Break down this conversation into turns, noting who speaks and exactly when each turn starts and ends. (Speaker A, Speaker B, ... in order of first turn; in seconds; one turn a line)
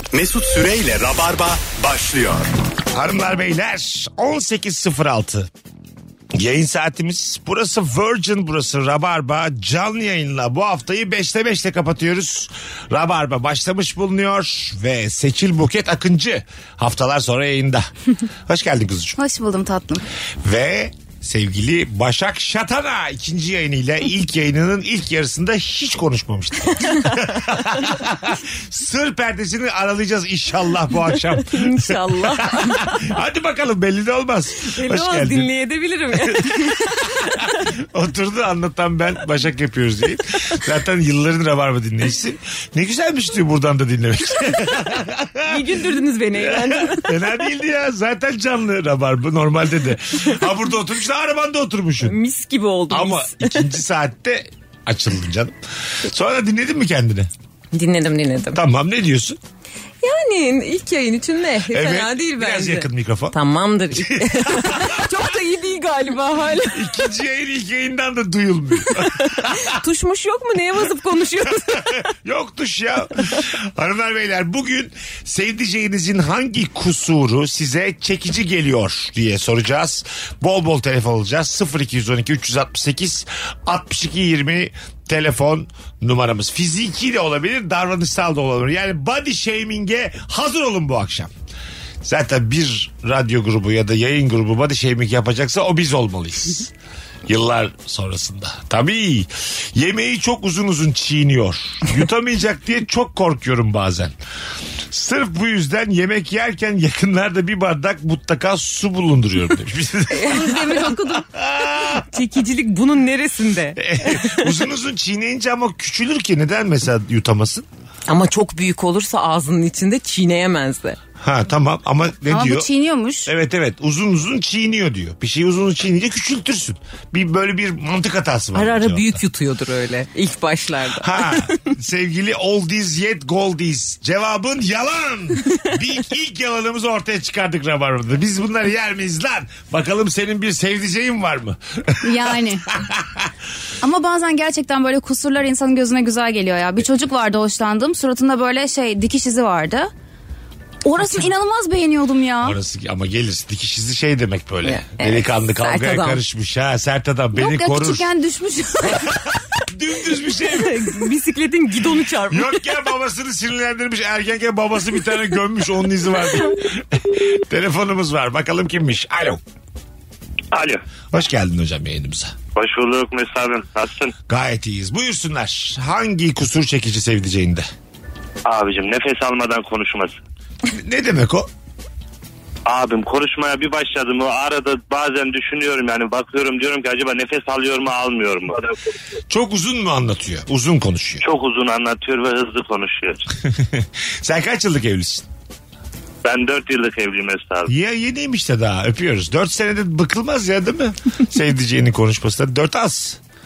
Speaker A: 0.1-2.5
Speaker B: 2.9-5.5
Speaker B: 6.3-17.9
Speaker B: 18.4-19.2
Speaker C: 19.1-20.0
Speaker B: 20.4-35.5
Speaker D: 31.5-33.0
Speaker D: 34.7-37.5
Speaker B: 36.8-45.6
Speaker D: 45.5-47.3
Speaker B: 46.4-52.1
Speaker D: 52.0-53.7
Speaker B: 52.9-57.3
Speaker D: 57.7-58.6
Speaker B: 58.5-59.4
Speaker D: 60.0-66.8
Speaker B: 61.7-63.3
Speaker B: 63.9-65.2
Speaker B: 66.7-69.7
Speaker D: 69.1-71.8
Speaker B: 71.7-91.3
Speaker B: 92.0-96.7
Speaker B: 97.3-104.1
Speaker B: 104.9-112.0
Speaker D: 110.1-110.8
Speaker C: 110.3-111.2
Speaker D: 112.1-114.4
Speaker B: 113.8-117.7
Speaker D: 118.1-121.0
Speaker B: 121.2-122.7
Speaker C: 122.3-123.3
Speaker B: 123.2-129.2
Speaker D: 128.5-131.6
Speaker B: 131.0-143.3
Speaker C: 142.0-142.6
Speaker C: 143.8-149.9
Speaker C: 150.8-152.6
Speaker B: 152.4-158.1
Speaker D: 154.6-156.2
Speaker C: 157.3-159.1
Speaker B: 158.8-160.9
Speaker D: 160.5-162.6
Speaker B: 162.3-169.4
Speaker E: 170.5-170.8
Speaker B: 171.1-172.3
Speaker E: 172.5-174.1
Speaker B: 174.3-177.7
Speaker E: 178.4-180.2
Speaker B: 180.7-181.5
Speaker E: 182.7-188.6
Speaker B: 189.3-191.2
Speaker E: 191.2-193.2
Speaker B: 193.6-195.2
Speaker E: 196.2-197.7
Speaker B: 197.7-203.2